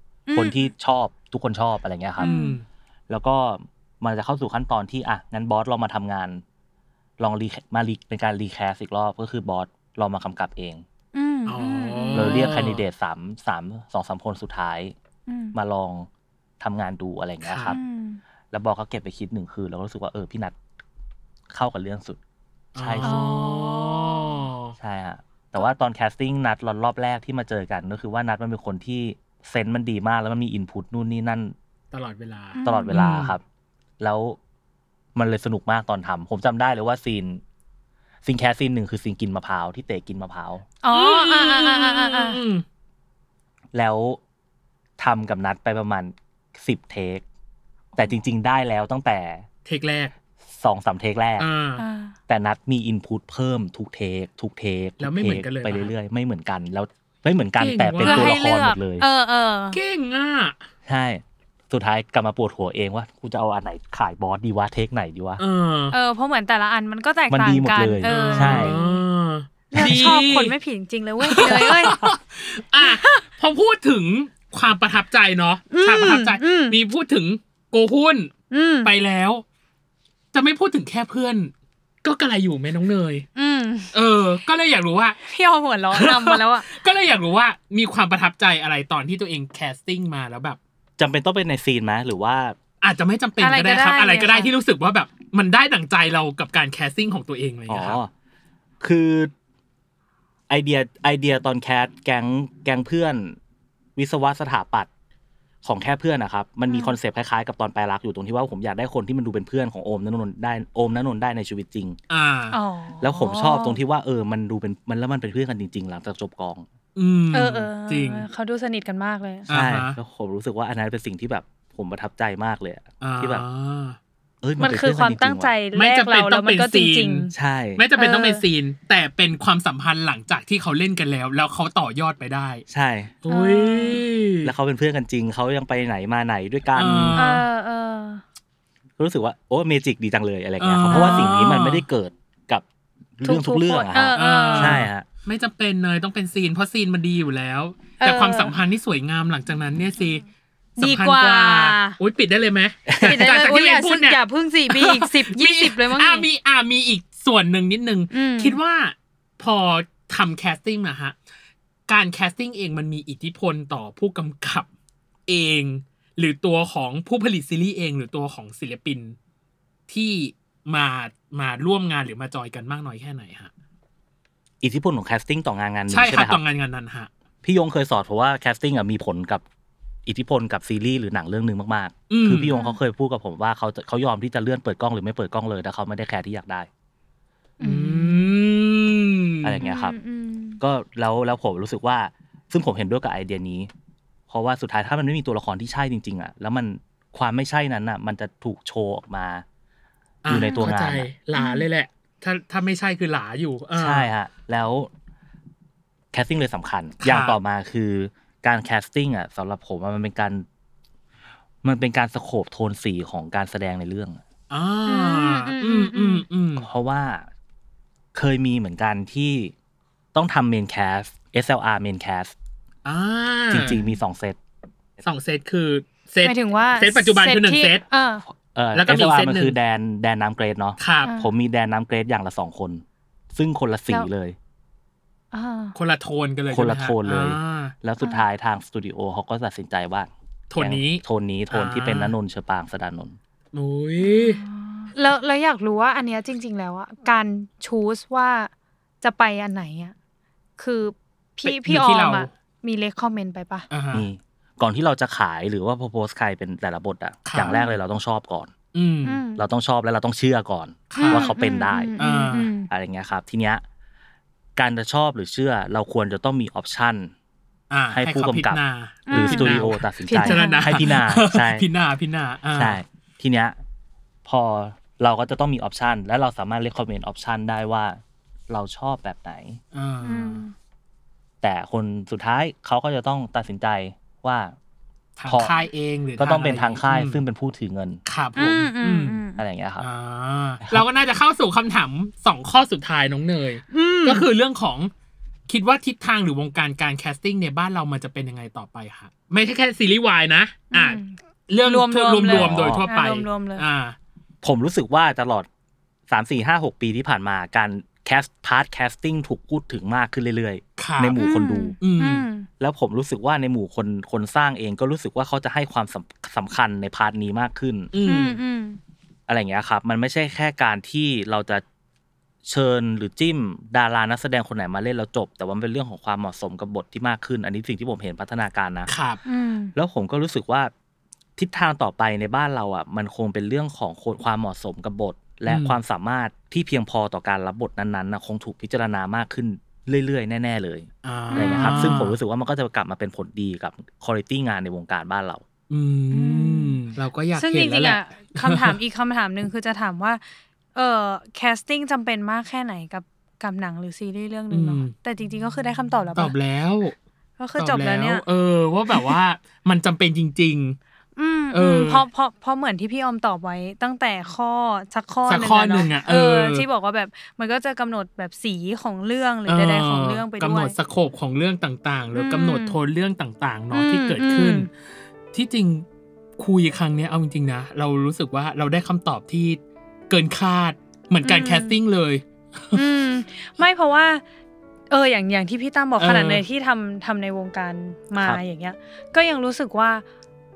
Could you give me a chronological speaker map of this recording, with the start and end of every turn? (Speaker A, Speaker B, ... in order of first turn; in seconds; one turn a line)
Speaker A: 0.3-0.7
Speaker B: 0.3-2.3
Speaker A: 2.2-2.6
Speaker C: 2.2-2.6
Speaker B: 3.1-6.4
Speaker B: 7.2-10.8
Speaker A: 11.1-12.5
Speaker C: 11.5-12.8
Speaker B: 12.1-14.9
Speaker A: 15.3-15.6
Speaker B: 15.5-16.1
Speaker B: 16.6-17.8
Speaker C: 17.4-17.8
Speaker A: 17.7-18.2
Speaker B: 18.5-20.6
Speaker B: 21.5-22.2
Speaker B: 22.8-23.2
Speaker C: 22.8-24.8
Speaker A: 23.0-24.4
Speaker B: 24.8-31.6
Speaker C: 31.9-33.4
Speaker A: 32.5-33.0
Speaker B: 32.6-33.4
Speaker B: 34.0-34.4
Speaker B: 35.1-37.4
Speaker B: 38.2-40.6
Speaker A: 40.8-42.4
Speaker C: 40.9-42.6
Speaker B: 43.7-44.2
Speaker B: 45.0-47.2
Speaker B: 48.0-49.5
Speaker C: 49.6-50.1
Speaker B: 50.6-51.5
Speaker C: 51.4-51.8
Speaker A: 51.8-52.1
Speaker B: 52.3-59.0
Speaker C: 55.0-55.9
Speaker C: 57.6-58.4
Speaker A: 58.0-59.8
Speaker C: 59.7-60.6
Speaker B: 60.9-65.4
Speaker C: 65.4-66.0
Speaker A: 65.9-69.0
Speaker B: 67.3-68.8
Speaker C: 68.1-70.5
Speaker A: 69.7-72.0
Speaker B: 69.8-70.1
Speaker C: 71.3-78.3
Speaker A: 72.8-73.2
Speaker A: 75.7-76.8
Speaker A: 78.5-78.9
Speaker C: 78.8-79.4
Speaker C: 80.3-81.5
Speaker C: 82.0-83.3
Speaker A: 83.4-83.9
Speaker C: 83.9-85.2
Speaker A: 85.3-86.7
Speaker C: 85.9-90.6
Speaker B: 91.0-92.6
Speaker C: 92.8-98.0
Speaker A: 93.4-94.5
Speaker B: 97.7-98.1
Speaker B: 98.8-99.3
Speaker B: 100.5-103.4
Speaker B: 104.0-104.9
Speaker B: 105.6-112.0
Speaker A: 106.7-107.0
Speaker C: 112.1-112.6
Speaker A: 112.5-113.8
Speaker B: 113.0-116.7
Speaker C: 117.0-118.3
Speaker A: 117.3-119.5
Speaker C: 119.5-120.0
Speaker B: 119.5-123.5
Speaker C: 123.0-124.0
Speaker B: 124.4-125.5
Speaker A: 124.6-127.3
Speaker C: 125.8-132.6
Speaker B: 127.3-127.8
Speaker A: 128.0-128.4
Speaker B: 132.7-133.1
Speaker C: 133.2-134.5
Speaker A: 133.3-134.0
Speaker B: 134.4-137.2
Speaker C: 136.7-137.5
Speaker A: 137.2-138.2
Speaker B: 139.0-142.7
Speaker C: 140.6-141.9
Speaker A: 140.9-141.3
Speaker B: 143.2-145.1
Speaker A: 143.2-144.8
Speaker C: 144.2-150.2
Speaker A: 148.0-148.5
Speaker A: 150.8-152.0
Speaker C: 150.8-161.2
Speaker B: 152.9-153.3
Speaker A: 153.1-156.3
Speaker A: 158.1-158.6
Speaker C: 161.9-164.7
Speaker C: 165.3-169.2
Speaker C: 169.9-173.5
Speaker B: 174.6-176.4
Speaker C: 175.9-177.1
Speaker B: 177.4-179.4
Speaker B: 180.1-186.7
Speaker C: 182.1-182.5
Speaker A: 182.5-182.8
Speaker A: 187.6-188.3
Speaker C: 187.6-189.6
Speaker B: 189.4-190.0
Speaker A: 189.6-190.6
Speaker B: 190.6-193.7
Speaker B: 194.3-199.4
Speaker C: 200.2-204.1
Speaker B: 200.3-201.1
Speaker A: 200.3-200.7
Speaker A: 201.3-201.7
Speaker B: 203.8-204.9
Speaker B: 206.1-210.5
Speaker C: 207.0-207.4
Speaker B: 211.6-214.2
Speaker C: 214.5-216.7
Speaker A: 214.9-216.2
Speaker B: 216.6-217.3
Speaker B: 218.2-219.5
Speaker B: 220.1-222.3
Speaker C: 222.8-223.8
Speaker B: 223.5-224.4
Speaker C: 225.0-227.8
Speaker A: 226.2-228.2
Speaker B: 228.6-234.4
Speaker C: 228.7-229.6
Speaker C: 230.8-231.1
Speaker A: 231.0-231.3
Speaker A: 235.3-235.8
Speaker C: 235.8-237.7
Speaker B: 236.5-243.2
Speaker C: 240.5-242.2
Speaker C: 243.5-244.4
Speaker A: 244.0-248.5
Speaker A: 249.0-249.9
Speaker A: 250.6-253.7
Speaker C: 251.4-252.3
Speaker C: 253.7-254.1
Speaker B: 253.9-258.5
Speaker C: 257.3-257.6
Speaker A: 257.5-257.8
Speaker C: 258.7-259.2
Speaker A: 259.1-259.4
Speaker B: 259.4-262.0
Speaker C: 260.9-261.3
Speaker A: 261.0-262.7
Speaker C: 262.0-262.5
Speaker B: 262.7-263.6
Speaker B: 264.6-267.1
Speaker C: 267.7-272.8
Speaker B: 267.9-271.6
Speaker A: 269.1-270.9
Speaker B: 272.5-273.6
Speaker B: 274.3-279.6
Speaker C: 279.7-280.4
Speaker A: 280.0-280.5
Speaker B: 281.4-284.6
Speaker C: 285.2-287.2
Speaker B: 285.3-285.5
Speaker B: 286.2-288.0
Speaker C: 288.1-289.2
Speaker A: 288.4-289.4
Speaker B: 289.4-289.9
Speaker C: 289.8-294.9
Speaker A: 293.7-294.2
Speaker C: 295.5-304.0
Speaker A: 300.7-303.6
Speaker B: 302.3-302.9
Speaker B: 304.4-305.5
Speaker B: 306.1-311.8
Speaker C: 310.8-311.2
Speaker A: 311.2-312.5
Speaker C: 311.8-312.3
Speaker B: 312.6-317.9
Speaker C: 317.9-318.4
Speaker A: 318.0-318.8
Speaker B: 319.3-321.6
Speaker B: 322.5-328.9
Speaker C: 328.9-329.2
Speaker A: 329.3-329.7
Speaker B: 329.8-330.7
Speaker B: 331.4-345.4
Speaker C: 335.5-335.8
Speaker C: 341.0-342.2
Speaker A: 341.3-342.0
Speaker C: 345.7-348.8
Speaker A: 346.1-346.8
Speaker A: 347.4-350.2
Speaker A: 350.8-356.4
Speaker C: 354.5-354.9
Speaker C: 356.1-356.9
Speaker A: 357.4-358.2
Speaker C: 357.6-360.8
Speaker A: 361.2-370.8
Speaker C: 361.5-362.1
Speaker C: 365.3-366.7
Speaker C: 369.5-374.7
Speaker A: 372.1-372.8
Speaker A: 373.7-374.7
Speaker C: 375.3-375.9
Speaker C: 376.4-382.8
Speaker A: 381.2-381.8
Speaker A: 382.7-384.2
Speaker A: 384.9-390.0
Speaker C: 386.0-386.4